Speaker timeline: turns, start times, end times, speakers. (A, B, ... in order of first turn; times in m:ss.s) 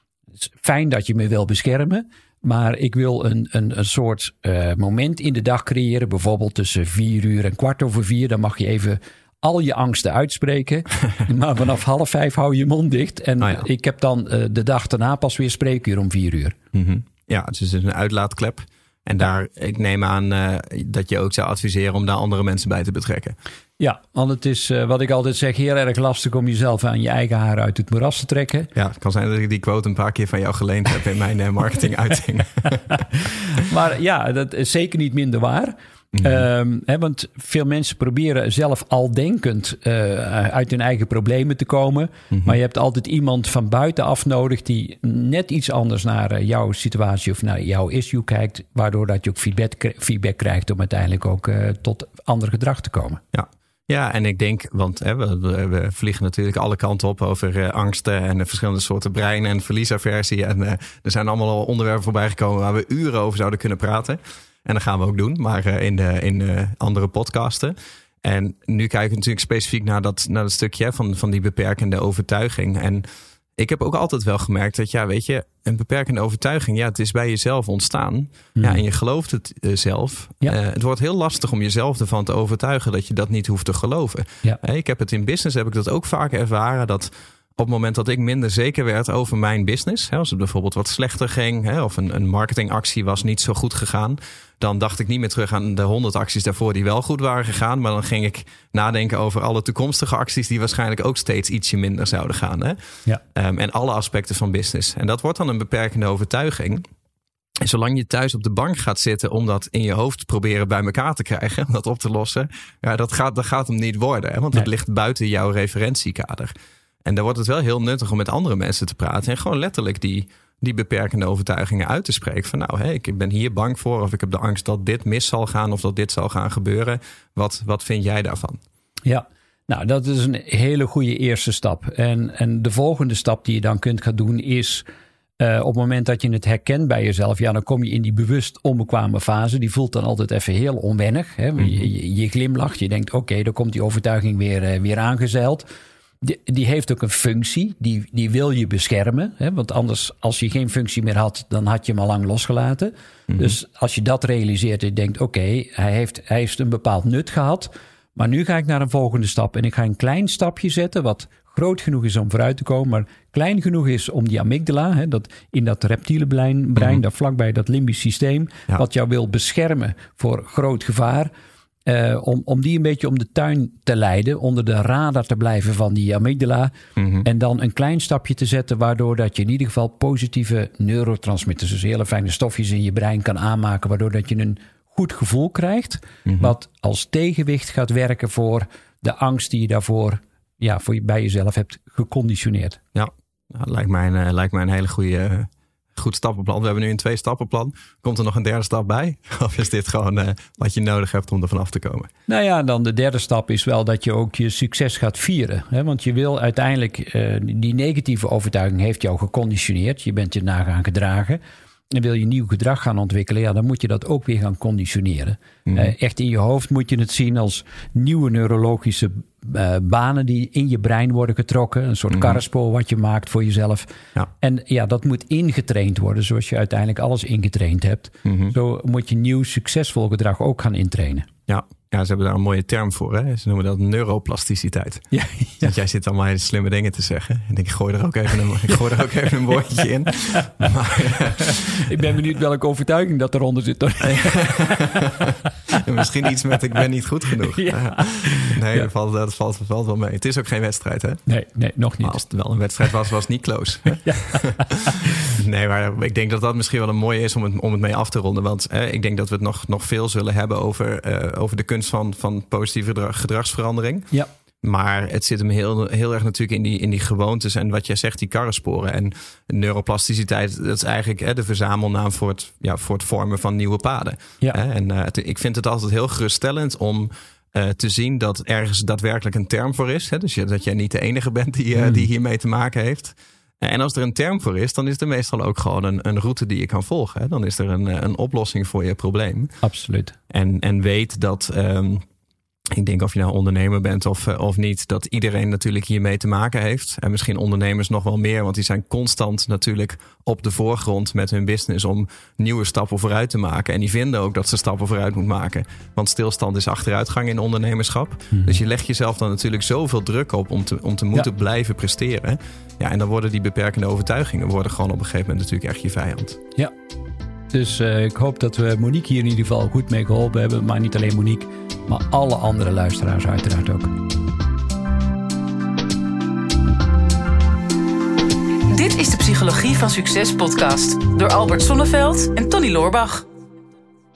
0:00.5-0:16.6 A
0:16.7-0:23.4 B
0:23.8-0:28.7 A
0:28.7-0:32.8 B
0:33.6-0:53.2 A
0:53.3-1:13.0 B
1:13.6-1:42.8 B
1:18.6-1:18.8 A
1:43.3-1:46.8 B
1:47.6-1:56.5 B
1:57.0-2:08.6 B
2:09.0-2:14.8 A
2:15.4-2:25.7 A
2:26.2-2:51.3 A
2:51.8-3:12.8 A
2:57.0-2:57.2 B
3:06.2-3:06.5 B
3:12.9-3:22.1 B
3:22.3-3:51.3 A
3:42.1-3:42.4 B
3:48.2-3:48.5 B
3:51.5-3:55.0 B
3:55.1-3:55.7 A
3:55.6-4:01.6 B
4:00.3-4:00.6 A
4:01.4-4:05.4 A
4:04.0-4:05.0 B
4:05.8-4:11.2 B
4:07.5-4:08.9 A
4:11.2-4:12.2 A
4:12.0-4:14.4 B
4:14.0-4:15.1 A
4:15.4-4:24.1 B
4:24.6-4:49.5 B
4:49.6-4:50.2 A
4:50.3-4:52.0 B
4:52.8-5:16.4 B
5:08.3-5:08.6 A
5:17.5-5:23.9 A
5:28.7-5:33.2 C